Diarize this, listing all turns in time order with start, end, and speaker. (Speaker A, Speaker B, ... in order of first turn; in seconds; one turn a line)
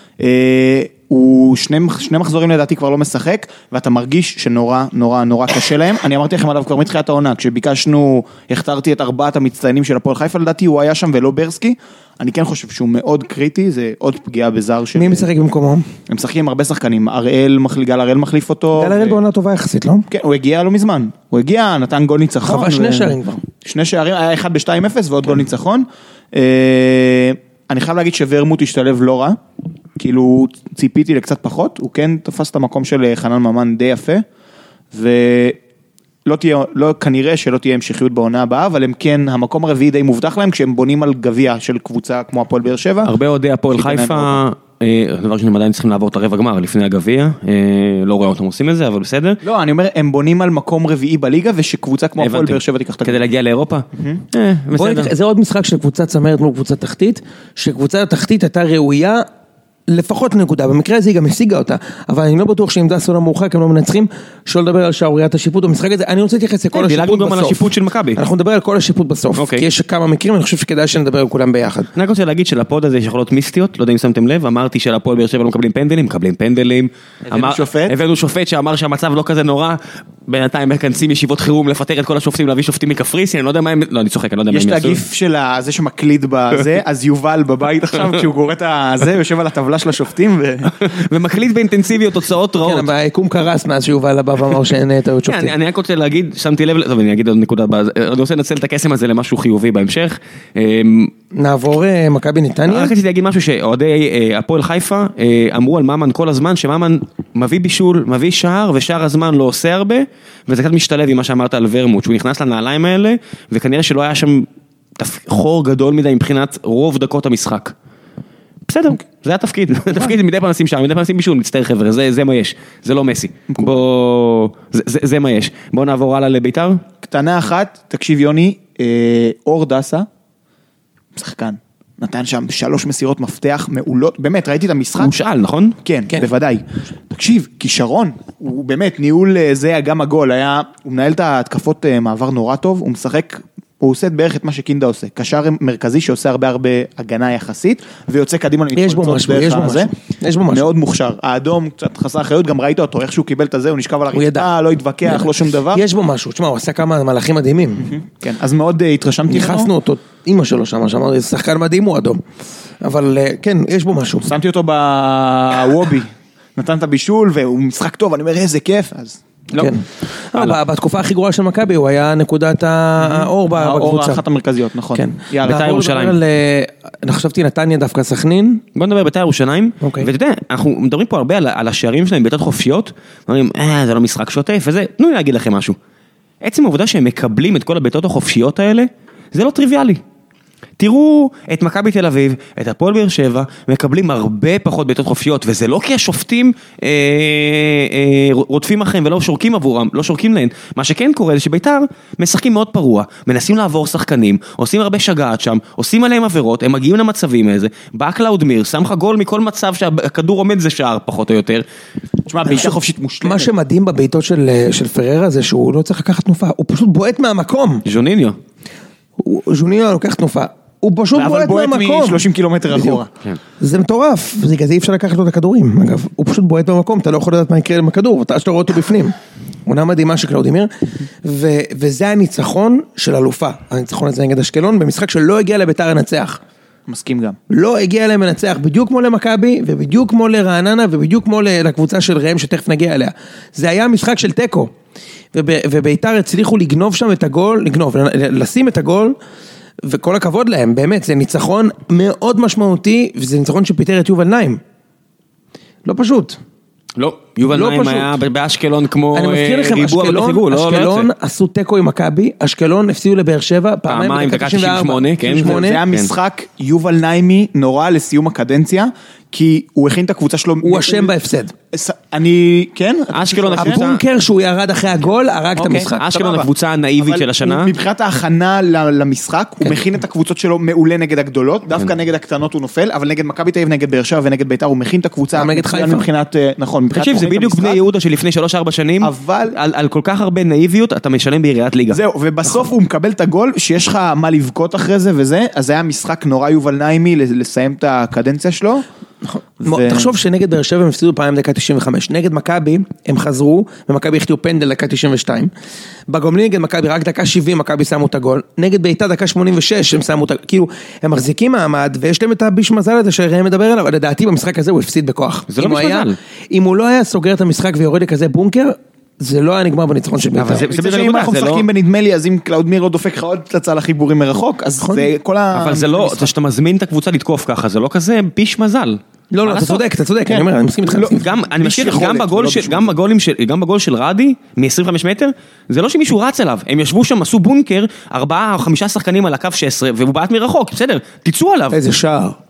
Speaker A: 0.2-15.3
Speaker B: 14.9-15.9
Speaker A: 16.1-19.2
Speaker B: 18.8-20.1
Speaker A: 20.1-29.4
Speaker B: 22.4-23.4
Speaker A: 30.0-34.2
Speaker A: 34.9-35.6
Speaker A: 36.2-43.1
Speaker C: 43.0-49.4
Speaker A: 43.7-44.4
Speaker A: 49.4-53.2
Speaker C: 52.2-55.1
Speaker A: 54.0-54.2
Speaker B: 54.7-59.2
Speaker B: 59.9-71.9
Speaker C: 66.7-68.2
Speaker C: 69.3-69.7
Speaker C: 71.9-85.0
Speaker A: 77.3-77.9
Speaker A: 84.5-90.7
Speaker C: 90.7-92.9
Speaker B: 92.6-95.5
Speaker C: 95.3-101.1
Speaker B: 101.3-102.9
Speaker C: 102.7-114.5
Speaker C: 115.0-117.7
Speaker C: 118.7-126.8
Speaker A: 123.5-123.8
Speaker A: 127.0-130.1
Speaker A: 131.1-135.1
Speaker C: 135.0-135.8
Speaker A: 135.8-149.9
Speaker B: 148.7-150.7
Speaker A: 150.5-155.8
Speaker B: 154.1-154.5
Speaker B: 155.0-157.9
Speaker A: 157.8-159.7
Speaker B: 159.3-162.2
Speaker B: 162.8-164.3
Speaker A: 164.2-169.2
Speaker B: 169.6-174.2
Speaker C: 170.3-170.6
Speaker A: 173.0-175.6
Speaker B: 174.9-178.6
Speaker C: 175.4-176.2
Speaker C: 178.7-185.8
Speaker B: 179.8-180.1
Speaker C: 186.4-190.0
Speaker C: 190.8-211.6
Speaker A: 212.2-213.5
Speaker B: 213.2-217.8
Speaker C: 217.8-218.4
Speaker B: 219.2-223.0
Speaker A: 221.1-223.1
Speaker B: 223.6-236.4
Speaker A: 236.9-237.4
Speaker B: 237.5-244.7
Speaker B: 245.3-249.2
Speaker B: 249.8-254.6
Speaker B: 255.8-256.4
Speaker C: 257.0-261.1
Speaker B: 257.5-258.1
Speaker B: 259.1-265.8
Speaker C: 263.9-266.1
Speaker A: 265.4-271.1
Speaker B: 270.6-271.5
Speaker A: 271.7-273.8
Speaker C: 273.1-274.0
Speaker B: 273.6-276.0
Speaker A: 275.6-287.8
Speaker C: 276.0-277.7
Speaker B: 285.3-286.1
Speaker C: 286.9-292.0
Speaker A: 289.0-289.6
Speaker A: 291.9-298.8
Speaker B: 299.2-305.5
Speaker A: 299.6-300.1
Speaker B: 306.1-320.7
Speaker C: 315.5-316.2
Speaker C: 320.4-321.7
Speaker A: 320.6-326.3
Speaker B: 324.8-325.1
Speaker C: 325.5-329.8
Speaker B: 329.3-331.2
Speaker A: 330.2-332.9
Speaker C: 331.1-341.8
Speaker B: 341.7-342.4